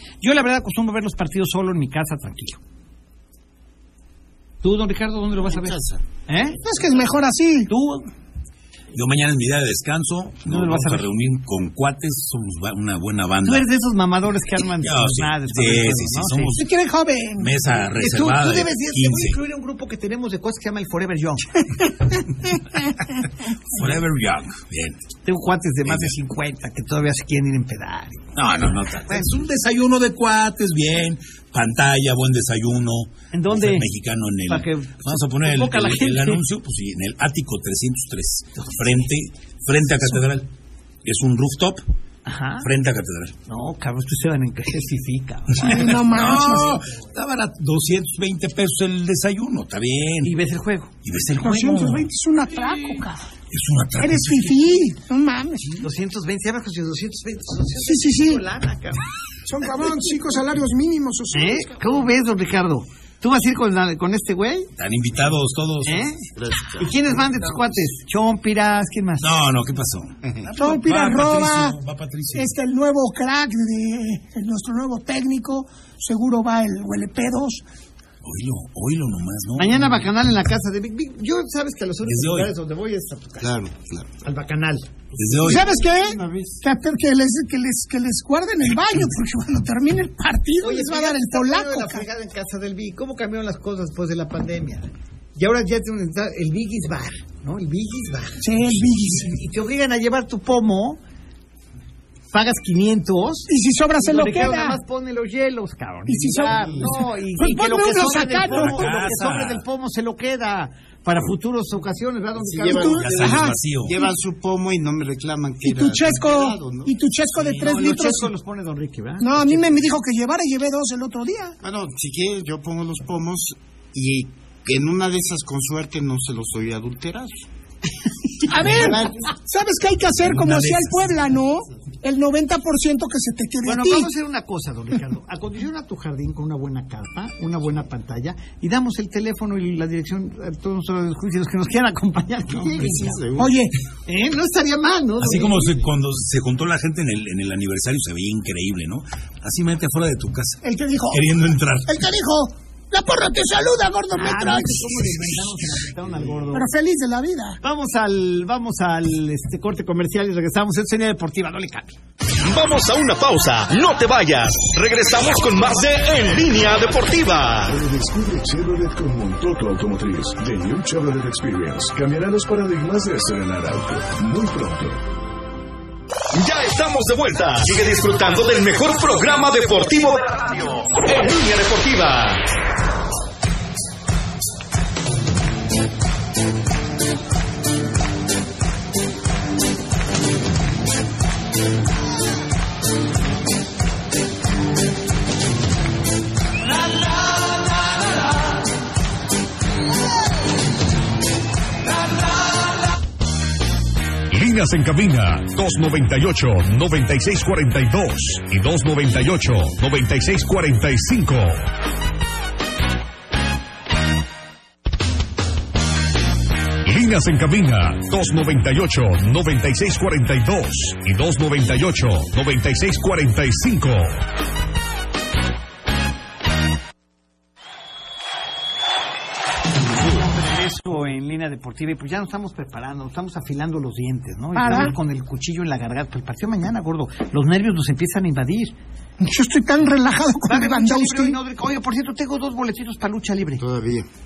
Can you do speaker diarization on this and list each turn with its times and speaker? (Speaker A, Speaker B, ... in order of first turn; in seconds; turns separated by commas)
Speaker A: 0.2-2.6, Speaker A: 4.6-6.6, Speaker B: 5.5-6.0, Speaker C: 6.6-7.7, Speaker A: 7.7-8.1, Speaker D: 8.9-13.7, Speaker A: 10.5-11.1, Speaker A: 13.4-16.6, Speaker D: 14.7-16.7, Speaker C: 16.6-17.7, Speaker D: 17.4-19.4, Speaker A: 18.0-21.5, Speaker D: 23.8-25.0, Speaker A: 25.3-28.3, Speaker D: 25.9-26.1, Speaker D: 28.4-40.5, Speaker A: 29.1-29.4, Speaker A: 33.3-33.9, Speaker A: 34.5-36.4, Speaker D: 41.0-41.8, Speaker A: 42.3-42.7, Speaker D: 42.6-43.4, Speaker A: 43.5-46.0, Speaker C: 45.6-46.8, Speaker D: 45.7-50.4, Speaker A: 50.2-50.9, Speaker D: 51.0-52.1, Speaker C: 51.4-53.3, Speaker D: 53.5-54.7, Speaker C: 54.0-55.8, Speaker A: 55.8-59.0, Speaker C: 57.8-58.4, Speaker C: 59.5-61.8, Speaker A: 61.3-64.7, Speaker D: 64.8-66.1, Speaker A: 65.8-66.2, Speaker B: 66.3-67.0, Speaker A: 66.8-69.3, Speaker D: 69.2-72.5, Speaker B: 70.2-70.5, Speaker C: 70.6-71.8, Speaker C: 72.3-77.6, Speaker D: 78.2-80.1, Speaker A: 79.6-83.5, Speaker D: 82.0-82.5, Speaker B: 83.4-84.2, Speaker A: 84.2-84.9, Speaker B: 85.2-86.6, Speaker D: 85.2-85.7, Speaker C: 85.5-92.1, Speaker A: 90.6-98.4, Speaker C: 98.4-99.4, Speaker A: 99.3-101.0, Speaker A: 102.3-113.1, Speaker C: 103.5-104.8, Speaker C: 106.1-109.0, Speaker B: 106.4-106.9, Speaker D: 108.5-109.6, Speaker B: 112.4-117.0, Speaker C: 112.7-113.6, Speaker D: 113.0-114.0, Speaker C: 115.7-118.3, Speaker A: 117.3-119.9, Speaker C: 119.2-121.6, Speaker B: 121.6-127.5, Speaker C: 128.5-134.1, Speaker B: 128.6-129.3, Speaker D: 130.2-131.0, Speaker A: 133.6-143.2, Speaker B: 142.5-143.6, Speaker C: 143.4-143.7, Speaker A: 144.1-145.8, Speaker D: 145.2-151.9, Speaker C: 150.6-151.2, Speaker C: 151.9-154.9, Speaker A: 154.2-156.7, Speaker C: 156.5-157.6, Speaker A: 157.6-162.0, Speaker E: 162.4-167.8, Speaker F: 167.7-175.0, Speaker E: 176.3-182.4, Speaker G: 204.3-211.7, Speaker G: 216.8-224.2, Speaker A: 229.9-238.8, Speaker C: 234.6-234.9, Speaker C: 239.2-241.4, Speaker A: 240.4-243.6, Speaker B: 243.6-244.1